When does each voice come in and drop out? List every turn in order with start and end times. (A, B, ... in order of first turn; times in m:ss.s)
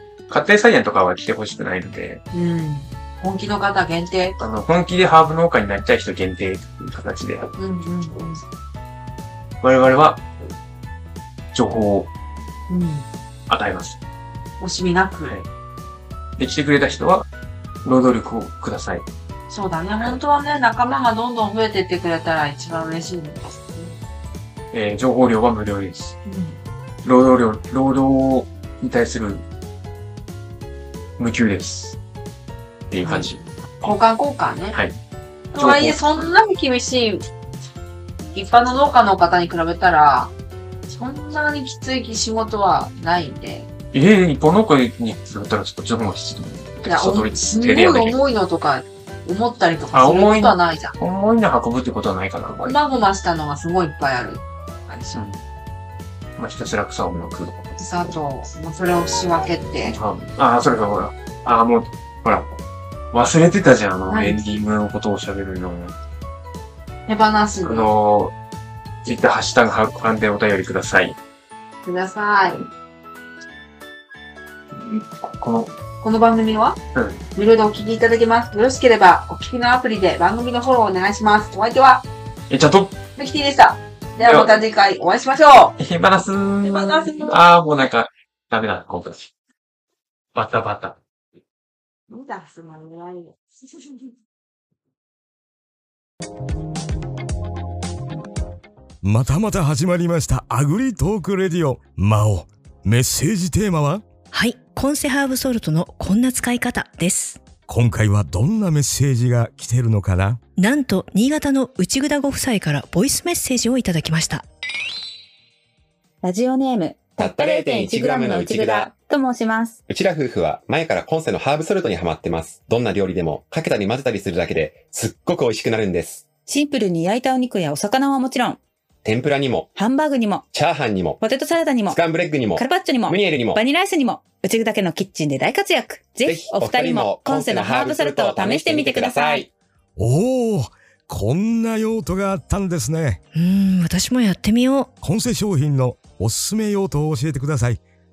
0:00.3-0:02.2 A
0:02.3-0:04.4 B
0:04.4-0:07.5 A
0:07.6-0:08.4 B
0:09.6-0:10.2 A
0:11.5-0:12.1 A
0:12.7-0:13.1 B
0:13.5-0:14.0 A
0:14.6-0:15.4 B
0:16.4-0:17.3 A
0:17.8-0:19.0 A
0:19.5-0:23.9 B
0:24.7-0:26.2 A
0:26.2-0:26.6 B
0:27.0-0:29.4 A
0:31.2-0:32.0 A
0:32.9-0:33.9 A
0:33.0-0:34.8 B
0:35.5-0:37.2 B
0:35.6-0:36.0 A
0:38.3-0:40.3 B
0:40.9-0:43.7 B
0:43.9-0:48.2 A
0:46.9-0:50.9 B
0:49.9-0:52.8 A
0:52.6-0:55.2 B
0:55.1-0:55.4 A
0:56.4-0:57.7 A
0:57.8-1:00.0 B
0:59.9-1:02.5 A
1:03.1-1:06.0 A
1:04.1-1:04.6 B
1:07.1-1:07.9 B
1:07.6-1:08.3 A
1:09.0-1:11.2 A
1:11.8-1:12.7 B
1:14.8-1:15.7 A
1:16.0-1:16.8 B
1:16.9-1:17.2 A
1:17.4-1:22.0 B
1:22.5-1:23.0 A
1:23.2-1:25.8 B
1:24.2-1:24.6 A
1:25.8-1:29.3 A
1:26.6-1:27.4 B
1:30.4-1:31.0 A
1:32.1-1:33.4 B
1:39.0-1:44.0 C
1:44.3-1:47.4 D
1:47.7-1:50.4 C
1:50.6-1:54.5 D
1:56.2-1:59.8 E
1:57.2-1:58.9 F
1:59.9-2:06.3 F
2:06.5-2:08.6 E
2:09.0-2:09.7 F
2:09.8-2:10.4 E
2:10.5-2:11.2 F
2:11.2-2:19.5 E
2:11.9-2:13.6 F
2:16.2-2:19.5 F
2:20.0-2:23.2 C
2:23.3-2:24.9 D
2:25.0-2:27.8 C